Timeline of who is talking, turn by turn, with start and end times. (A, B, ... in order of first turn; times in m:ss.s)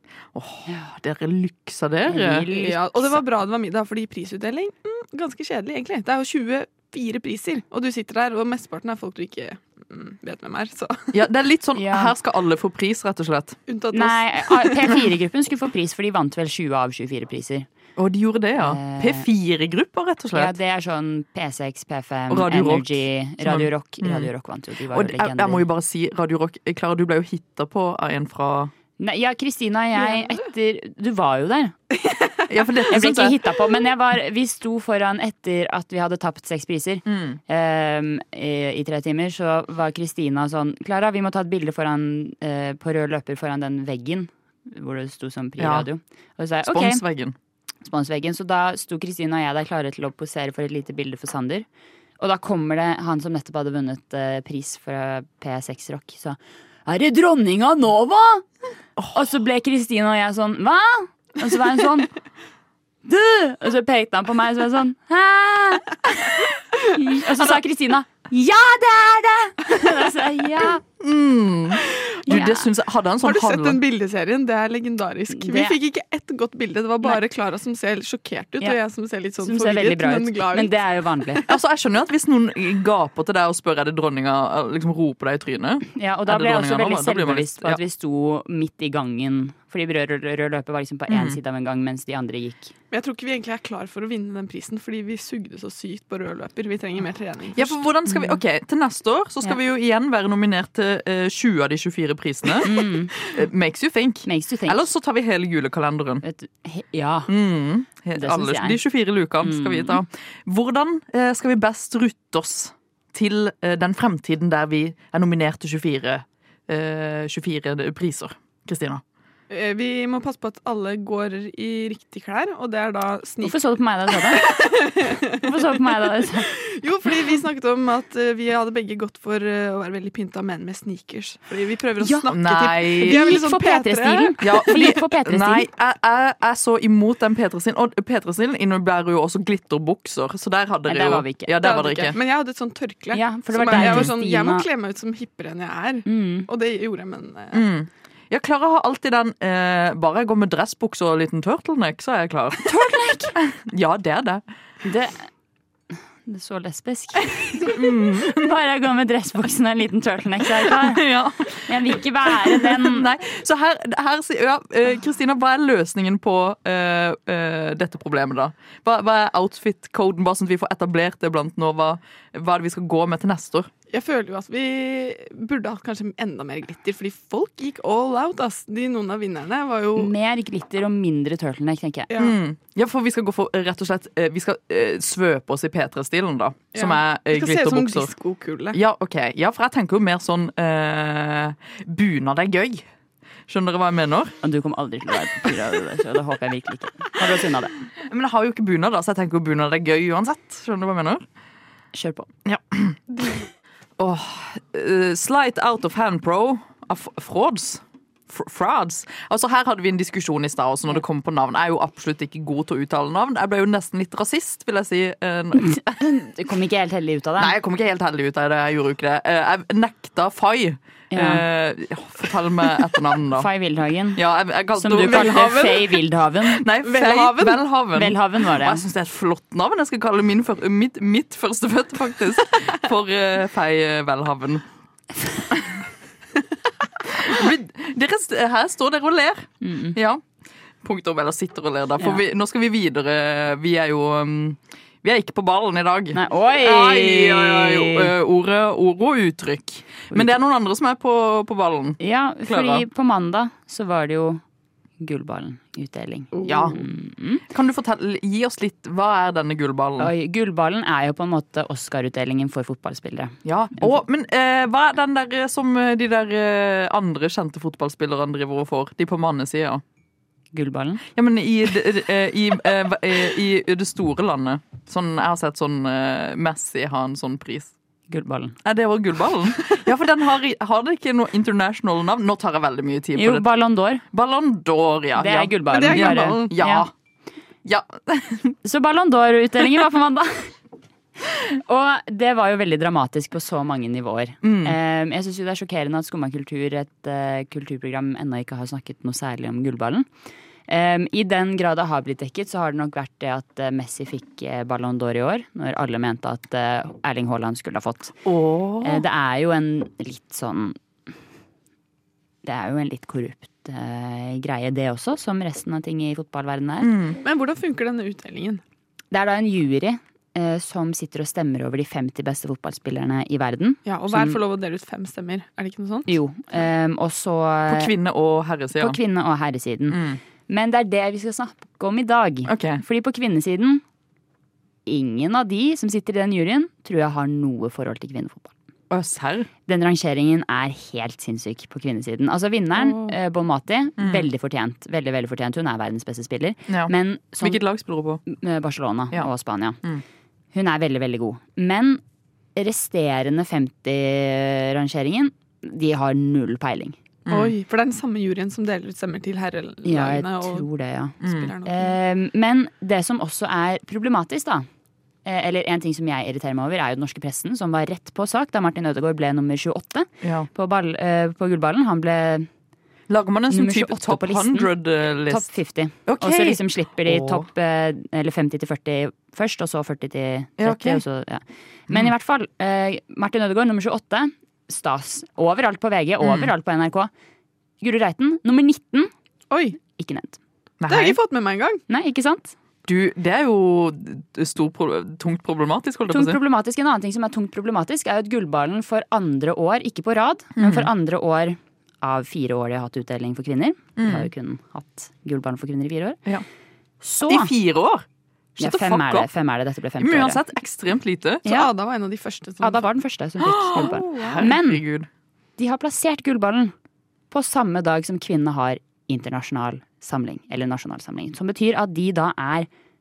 0:00.3-0:02.5 A
0:02.1-0:03.2 B
0:02.5-0:11.1 C
0:11.1-0:13.6 A
0:11.8-0:12.1 B
0:13.7-0:14.9 C
0:13.9-0:17.7 B
0:18.0-0:20.5 A
0:18.6-0:19.3 B
0:20.3-0:25.6 B
0:22.3-0:24.3 A
0:24.9-0:28.7 A
0:29.0-0:31.8 B
0:32.5-0:33.4 A
0:32.9-0:47.0 B
0:37.1-0:37.4 A
0:45.6-0:45.9 A
0:46.6-0:47.4 A
0:47.8-0:51.7 B
0:52.2-0:58.5 B
0:59.0-0:59.2 A
0:59.1-1:02.1 B
1:03.0-1:10.8 B
1:11.0-1:13.8 A
1:12.3-1:12.6 B
1:13.2-1:20.7 C
1:15.3-1:15.8 B
1:19.4-1:21.4 B
1:21.5-1:27.8 A
1:25.9-1:32.7 B
1:31.1-1:31.4 A
1:32.9-1:37.8 C
1:37.6-1:46.2 A
1:38.1-1:38.4 B
1:42.6-1:43.1 B
1:44.2-1:44.8 B
1:46.2-1:47.3 B
1:47.3-1:59.0 A
1:48.2-1:48.8 B
1:49.4-1:50.0 B
1:59.5-2:03.6 C
2:03.4-2:06.5 B
2:04.1-2:05.8 C
2:06.5-2:14.9 C
2:12.0-2:12.3 B
2:12.3-2:13.2 A
2:13.0-2:15.7 B
2:14.4-2:22.2 A
2:20.9-2:21.6 B
2:21.6-2:27.6 C
2:23.1-2:24.6 B
2:23.7-2:24.1 A
2:26.0-2:26.5 B
2:27.5-2:32.8 A
2:32.6-2:33.3 B
2:33.4-2:34.4 A
2:34.8-2:35.2 B
2:36.2-2:41.0 B
2:37.6-2:38.5 A
2:40.6-2:53.7 A
2:41.6-2:43.1 B
2:53.9-3:00.1 C
3:00.0-3:02.1 B
3:02.1-3:02.4 C
3:02.2-3:08.1 A
3:06.7-3:08.8 C
3:08.7-3:12.8 A
3:13.5-3:14.4 A
3:14.4-3:17.8 B
3:18.0-3:21.2 A
3:21.9-3:22.3 B
3:22.4-3:23.0 A
3:24.0-3:36.0 A
3:35.6-3:37.5 B
3:37.4-3:43.5 A
3:41.1-3:41.4 B
3:43.3-3:44.2 B
3:44.1-3:45.8 A
3:44.7-3:46.6 B
3:45.1-3:45.8 C
3:46.4-3:54.6 A
3:46.8-3:47.6 C
3:47.9-3:48.8 B
3:55.5-3:55.8 A
3:57.0-4:00.2 A
3:59.6-4:00.0 B
4:00.8-4:12.8 A
4:06.1-4:08.1 B
4:12.0-4:14.4 B
4:15.0-4:17.4 B
4:16.4-4:16.8 A
4:17.5-4:20.1 A
4:20.0-4:24.0 B
4:23.4-4:29.8 A
4:30.5-4:31.0 B
4:31.1-4:37.7 A
4:38.1-4:38.6 B
4:38.6-4:43.4 A
4:43.1-4:44.0 B
4:44.1-4:46.9 A
4:45.2-4:46.9 B
4:45.7-4:46.5 C
4:47.6-4:48.6 A
4:48.6-4:50.5 B
4:51.5-5:00.1 B
4:54.4-4:54.8 A
5:00.7-5:08.2 B
5:08.2-5:09.0 A
5:08.8-5:10.8 B
5:12.4-5:16.9 B
5:16.8-5:17.2 A
5:17.2-5:18.6 C
5:19.1-5:24.4 B
5:23.8-5:26.1 C
5:26.1-5:27.9 B
5:27.7-5:29.0 A
5:28.8-5:33.8 B
5:29.9-5:30.2 A
5:32.5-5:32.8 A
5:34.8-5:38.5 B
5:38.9-5:39.5 A
5:39.7-5:47.6 B
5:44.0-5:44.3 A
5:46.7-5:48.2 A
5:48.2-5:49.8 B
5:50.5-5:52.0 B
5:52.6-5:57.0 B
5:57.3-5:57.6 A
5:57.3-6:00.7 C
5:59.8-6:04.6 B
6:01.2-6:02.0 C
6:01.2-6:01.5 A
6:05.2-6:12.5 B
6:10.2-6:10.5 A
6:13.1-6:15.5 A
6:13.5-6:14.7 B
6:15.3-6:27.1 B
6:16.1-6:17.5 A
6:20.6-6:21.0 A
6:26.2-6:26.5 A
6:27.8-6:29.1 B
6:29.5-6:29.8 C
6:29.8-6:30.4 B
6:30.8-6:31.2 A
6:30.9-6:31.8 C
6:31.9-6:32.5 B
6:32.8-6:36.4 A
6:36.1-6:46.2 B
6:40.6-6:40.9 A
6:44.0-6:44.3 A
6:47.0-6:47.5 B
6:47.3-6:48.0 A
6:48.6-6:49.3 A
6:48.6-6:50.4 B
6:50.0-6:51.4 A
6:51.4-6:52.8 C
6:52.6-6:54.8 B
6:53.4-6:55.1 A
6:53.8-6:54.4 C
6:55.6-6:56.7 B
6:57.3-7:02.7 B